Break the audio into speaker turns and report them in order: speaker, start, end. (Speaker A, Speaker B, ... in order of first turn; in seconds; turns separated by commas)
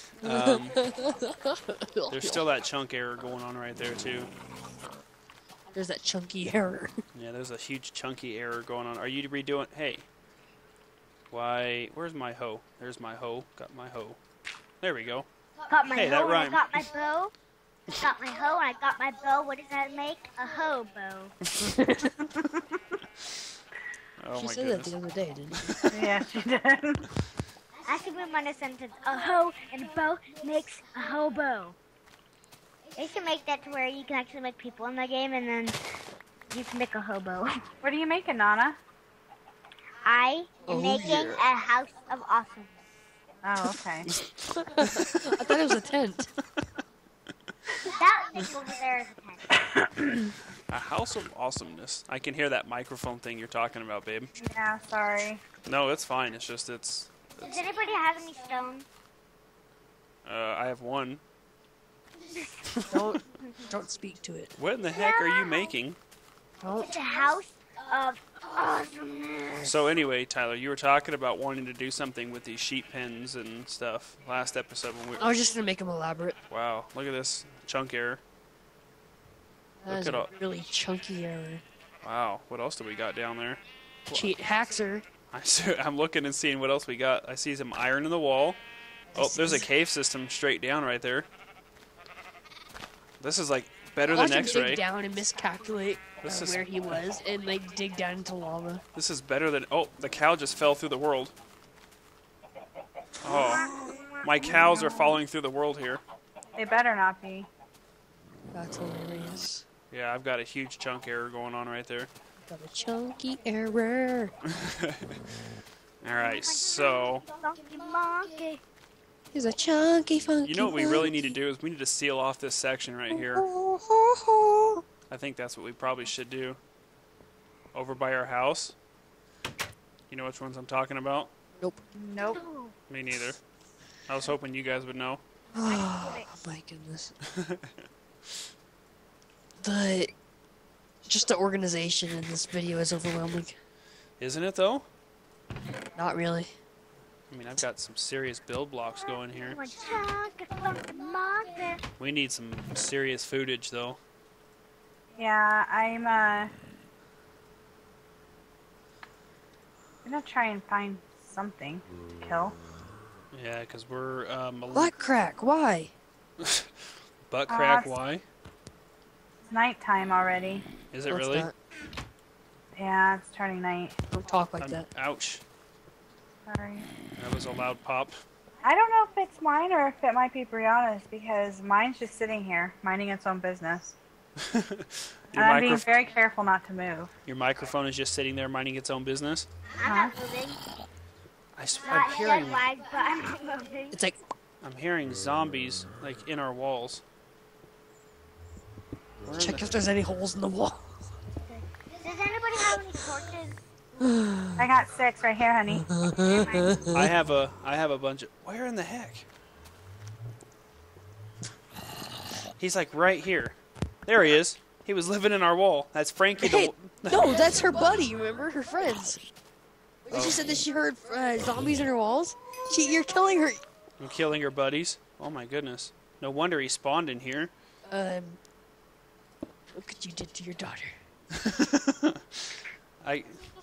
Speaker A: 0.2-0.8, Speaker B: 0.2-2.5, Speaker A: 2.1-4.3, Speaker B: 5.7-7.0, Speaker A: 7.1-10.1, Speaker A: 11.3-14.2, Speaker A: 14.8-15.3, Speaker C: 15.7-17.3, Speaker A: 15.9-16.6, Speaker C: 17.9-21.4, Speaker B: 21.6-22.2, Speaker A: 24.2-25.0, Speaker B: 24.3-25.8, Speaker A: 25.6-26.0, Speaker D: 25.9-27.0, Speaker C: 27.9-31.8, Speaker C: 33.0-35.8, Speaker C: 36.5-37.6, Speaker D: 37.8-38.8, Speaker C: 40.0-42.8, Speaker B: 40.7-41.3, Speaker A: 41.0-41.4, Speaker D: 43.4-44.1, Speaker A: 44.2-45.4, Speaker B: 44.6-46.3, Speaker C: 47.8-49.5, Speaker A: 50.7-54.3, Speaker D: 54.4-55.4, Speaker A: 55.6-57.2, Speaker C: 57.4-58.9, Speaker A: 60.3-61.2, Speaker C: 62.3-62.9, Speaker A: 62.7-63.2, Speaker B: 62.9-64.5, Speaker A: 64.6-66.0, Speaker C: 65.0-65.7, Speaker B: 66.6-66.9, Speaker C: 66.8-69.8, Speaker A: 69.6-75.3, Speaker B: 75.2-76.4, Speaker A: 76.5-78.2, Speaker B: 79.8-81.6, Speaker A: 79.9-80.3, Speaker A: 82.0-84.3, Speaker B: 84.1-85.1, Speaker A: 85.3-88.6, Speaker B: 89.1-89.7, Speaker A: 89.2-91.3, Speaker A: 93.2-94.8, Speaker B: 94.1-98.8, Speaker A: 96.2-97.0, Speaker A: 99.0-101.3, Speaker A: 103.2-103.7, Speaker A: 104.2-106.0, Speaker D: 106.5-107.5, Speaker B: 108.5-109.6, Speaker A: 109.9-112.1, Speaker B: 112.5-114.3, Speaker A: 114.5-115.2, Speaker A: 116.0-117.2, Speaker C: 116.1-118.6, Speaker B: 119.3-121.2, Speaker A: 120.4-123.5, Speaker B: 123.1-124.8, Speaker A: 125.1-126.6, Speaker A: 127.7-128.8, Speaker A: 130.1-131.3, Speaker D: 131.9-132.4, Speaker C: 132.2-132.8, Speaker A: 132.9-133.4, Speaker A: 134.1-135.2, Speaker B: 135.5-137.1, Speaker C: 135.6-136.3, Speaker A: 137.2-137.7, Speaker B: 139.6-140.1, Speaker B: 141.1-143.6, Speaker A: 144.2-144.9, Speaker B: 146.0-146.5, Speaker A: 147.3-149.6, Speaker C: 149.1-151.8, Speaker A: 152.0-154.0, Speaker D: 155.2-156.5, Speaker D: 160.1-162.6, Speaker A: 163.3-164.9, Speaker B: 164.7-165.9, Speaker A: 166.4-168.2, Speaker D: 167.5-167.9, Speaker D: 169.5-170.7, Speaker A: 170.9-171.5, Speaker B: 171.1-171.5, Speaker D: 172.8-174.0, Speaker B: 174.1-174.9, Speaker A: 174.6-175.4, Speaker D: 176.5-176.9, Speaker A: 177.2-178.2, Speaker D: 178.6-184.0, Speaker A: 184.4-185.9, Speaker D: 185.3-187.1, Speaker A: 187.3-189.5, Speaker C: 189.7-190.6, Speaker D: 189.8-190.1, Speaker A: 191.6-192.6, Speaker C: 191.8-194.0, Speaker B: 193.9-194.2, Speaker A: 194.6-197.0, Speaker A: 199.2-199.8, Speaker B: 199.3-201.1, Speaker C: 201.5-203.6, Speaker B: 204.0-204.7, Speaker D: 204.6-205.9, Speaker B: 205.9-207.1, Speaker C: 206.1-206.8, Speaker A: 206.9-209.3, Speaker A: 212.6-217.4, Speaker B: 216.4-219.3, Speaker B: 220.1-223.6, Speaker A: 220.1-220.4, Speaker A: 224.0-227.5, Speaker B: 227.9-228.4, Speaker B: 229.7-231.0, Speaker A: 231.3-233.4